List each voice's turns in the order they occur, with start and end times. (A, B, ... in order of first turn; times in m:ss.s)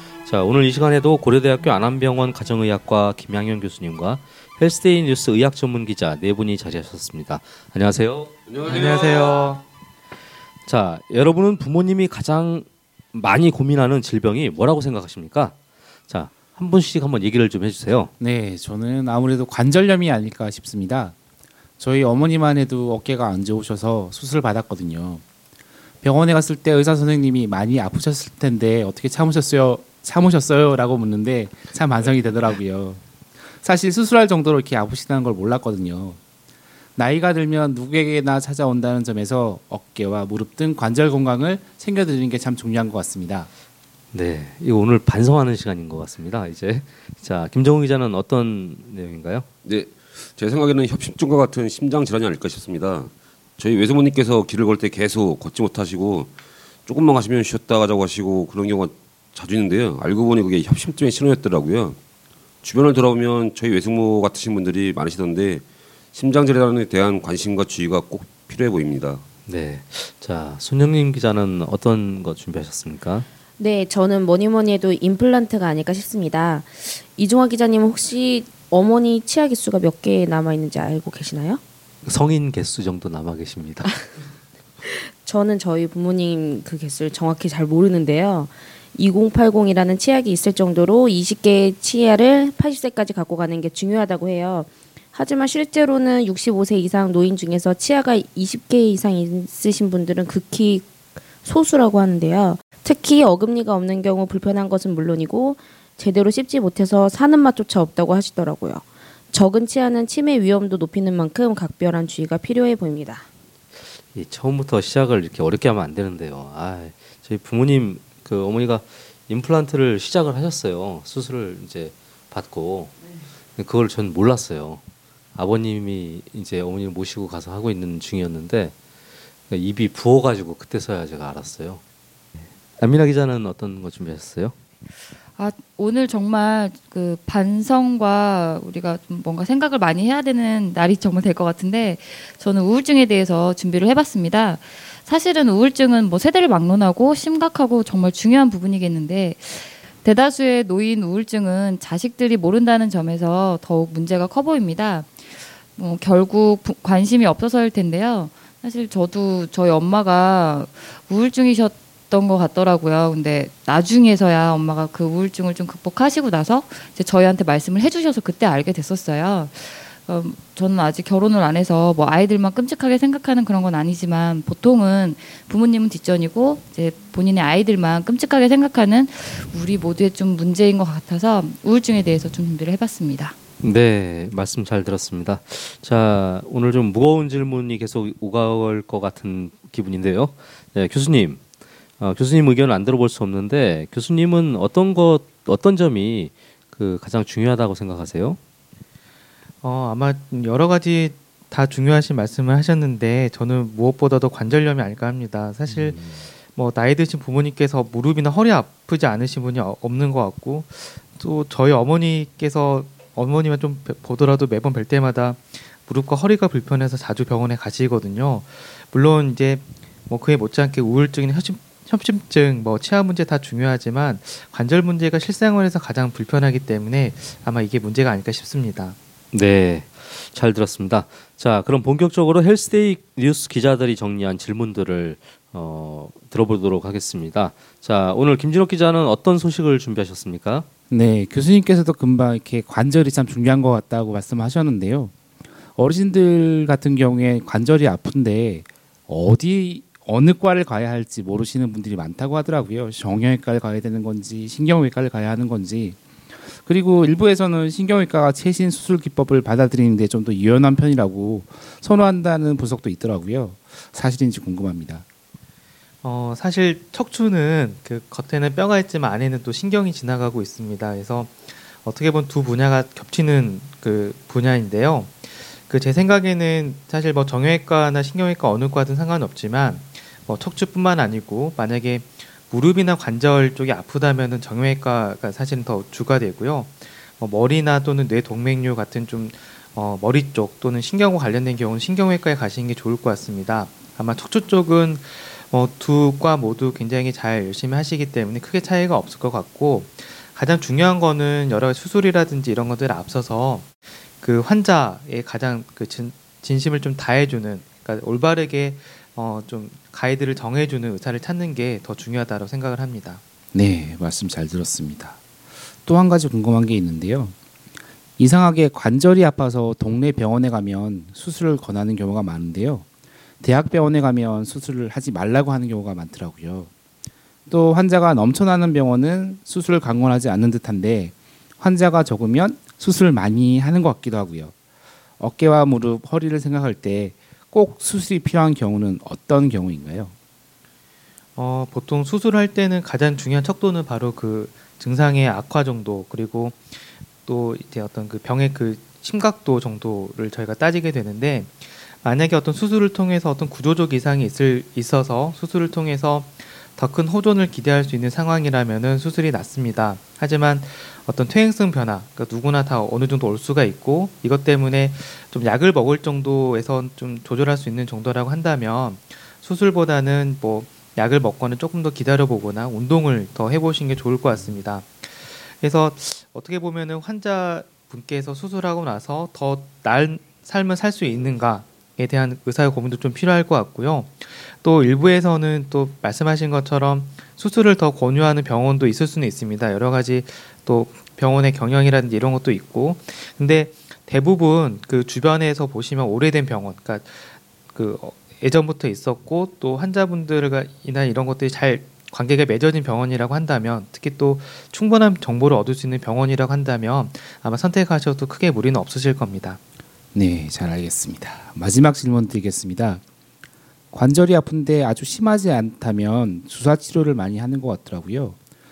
0:00.2-0:08.3 A
0:08.5-0:09.5 B
0:08.6-0:09.6 C
0:10.6-0:15.5 A
0:16.1-0:18.1 A
0:18.2-0:21.1 D
0:21.8-0:25.2 D
0:26.0-0:33.0 D
0:33.6-0:36.2 D
0:37.0-0:43.5 D
0:44.1-0:49.5 A
0:49.6-0:56.3 B
0:56.8-1:02.0 B
1:02.6-1:09.2 B
1:09.5-1:13.3 A
1:13.6-1:21.6 E
1:22.0-1:24.0 A
1:25.2-1:40.9 E
1:41.4-1:53.2 E
1:54.1-2:03.0 A
2:03.6-2:04.8 A
2:05.3-2:08.7 A
2:09.5-2:11.8 A
2:12.8-2:14.5 A
2:15.4-3:03.4 F
3:03.6-3:11.4 A
3:12.0-3:18.4 A
3:19.6-3:26.0 C
3:25.7-3:26.1 A
3:26.5-3:49.0 C
3:49.3-4:00.6 A
4:00.9-4:05.1 D
4:05.7-4:16.0 D
4:16.6-4:25.0 D
4:26.0-5:03.7 C
5:04.2-5:13.2 C
5:13.5-5:15.2 D
5:15.8-5:17.3 D
5:18.2-5:22.8 D
5:23.4-5:26.7 D
5:27.5-5:34.5 D
5:35.2-5:40.1 D
5:41.4-6:49.6 C
6:50.1-6:53.0 D
6:53.9-6:58.4 D